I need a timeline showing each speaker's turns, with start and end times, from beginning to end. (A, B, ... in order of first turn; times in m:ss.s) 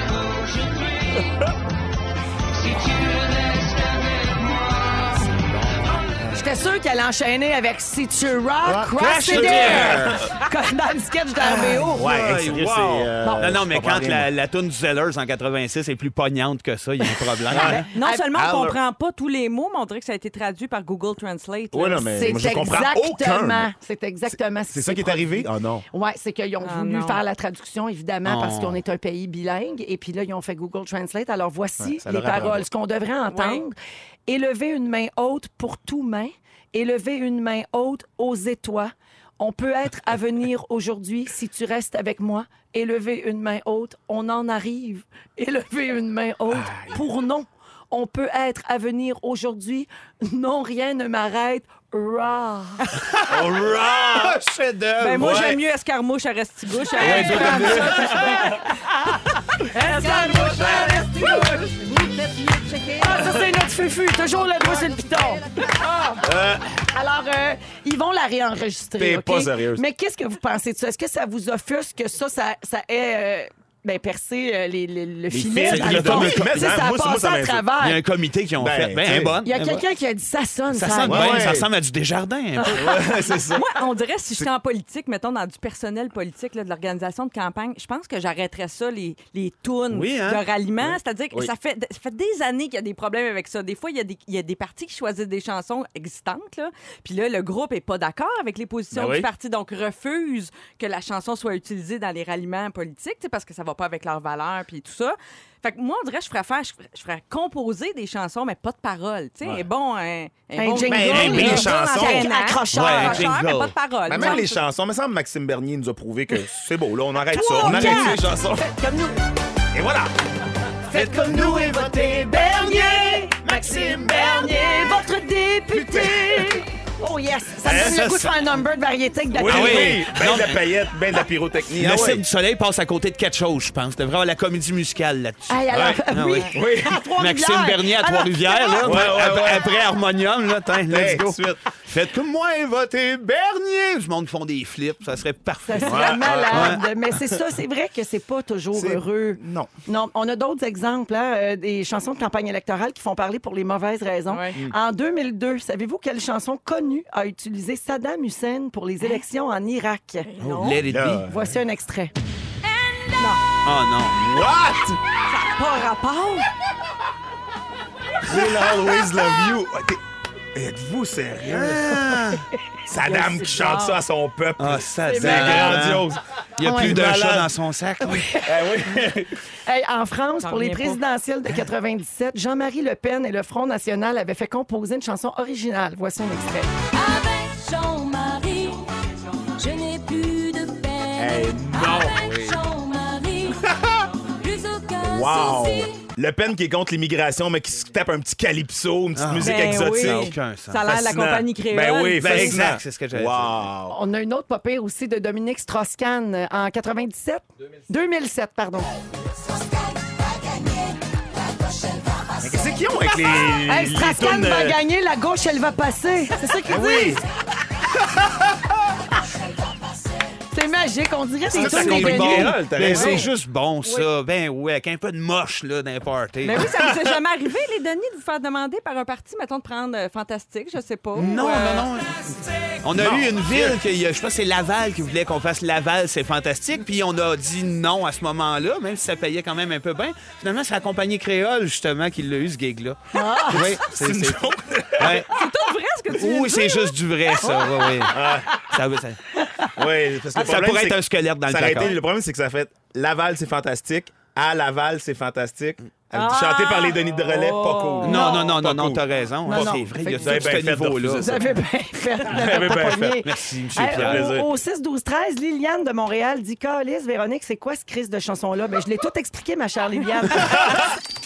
0:05.4-0:06.0 A
0:06.3-0:12.4 B
0:08.6-0:10.3 C
0:09.0-0:10.2 A
0:11.4-0:17.8 A
0:11.6-0:14.3 C
0:13.2-0:13.5 B
0:17.5-0:18.8 C
0:17.6-0:18.3 B
0:17.7-0:22.4 D
0:21.7-0:23.7 C
0:22.2-0:33.8 B
0:24.7-0:25.9 C
0:26.6-0:27.2 D
0:28.3-0:28.8 A
0:31.8-0:32.7 C
0:33.3-0:33.6 D
0:34.3-0:53.0 B
0:46.5-0:47.0 C
0:53.1-0:55.4 A
0:53.3-0:54.4 C
0:55.0-0:58.3 D
0:55.2-0:55.6 C
0:57.0-0:58.7 B
0:57.0-0:58.2 C
0:59.7-1:01.7 B
0:59.7-1:01.6 D
1:03.0-1:06.2 B
1:06.2-1:06.7 C
1:06.8-1:18.0 B
1:09.0-1:09.8 C
1:15.3-1:17.7 C
1:15.6-1:16.5 A
1:17.8-1:19.8 A
1:18.6-1:19.5 C
1:19.4-1:21.6 B
1:20.7-1:23.0 A
1:21.0-1:21.7 C
1:22.7-1:23.7 C
1:23.5-1:54.5 D
1:29.9-1:30.4 A
1:30.8-1:31.5 C
1:38.9-1:39.3 C
1:50.5-1:53.2 B
1:50.8-1:52.3 C
1:51.1-1:51.7 A
1:52.7-1:53.8 A
1:54.1-1:58.8 C
1:54.2-1:54.4 B
1:57.3-1:59.2 B
1:57.4-1:58.2 D
1:59.7-2:00.1 C
2:00.9-2:10.1 B
2:00.9-2:04.2 C
2:05.7-2:06.6 C
2:07.6-2:08.1 C
2:07.7-2:08.3 A
2:09.3-2:12.2 C
2:09.4-2:10.6 A
2:11.8-2:16.6 A
2:15.5-2:19.6 B
2:16.5-2:17.0 C
2:17.2-2:26.8 A
2:18.8-2:19.7 C
2:20.9-2:21.6 C
2:25.6-2:40.3 B
2:25.8-2:26.8 C
2:28.7-2:29.7 C
2:34.3-2:34.6 D
2:40.2-2:40.8 D
2:40.4-2:41.3 A
2:40.9-2:41.6 C
2:41.3-2:42.1 B
2:43.6-2:44.2 A
2:44.1-2:45.0 C
2:45.3-2:46.5 D
2:48.2-2:50.0 C
2:50.5-2:57.5 C
2:51.5-2:52.4 A
2:53.0-2:53.9 B
2:53.4-2:53.9 D
2:54.6-2:58.3 A
2:55.1-2:56.0 B
2:56.6-2:57.1 B
2:58.0-2:59.2 B
2:58.4-2:59.3 C
2:59.7-3:06.7 B
3:00.4-3:01.0 D
3:06.9-3:08.9 E
3:09.6-3:13.7 E
3:11.2-3:12.2 C
3:14.4-3:16.0 E
3:15.0-3:24.0 C
3:19.2-3:20.8 A
3:19.4-3:22.5 D
3:22.2-3:23.6 A
3:23.9-3:28.9 B
3:31.7-3:32.4 E
3:32.4-3:34.8 C
3:33.5-3:37.2 B
3:36.7-3:37.2 C
3:38.0-3:38.7 C
3:40.5-3:43.3 B
3:41.5-3:46.8 A
3:41.5-3:43.3 C
3:46.4-3:51.9 D
3:51.2-4:04.4 A
3:53.0-3:53.8 C
4:03.1-4:03.8 B
4:03.6-4:05.3 C
4:05.0-4:05.3 A
4:05.3-4:06.9 D
4:06.1-4:09.2 A
4:08.1-4:08.6 C
4:09.8-4:21.4 C
4:10.4-4:12.0 A
4:16.1-4:18.4 D
4:18.0-4:21.4 A
4:18.1-4:18.4 B
4:19.5-4:20.6 B
4:21.2-4:30.8 B
4:22.3-4:24.5 C
4:23.2-4:24.3 A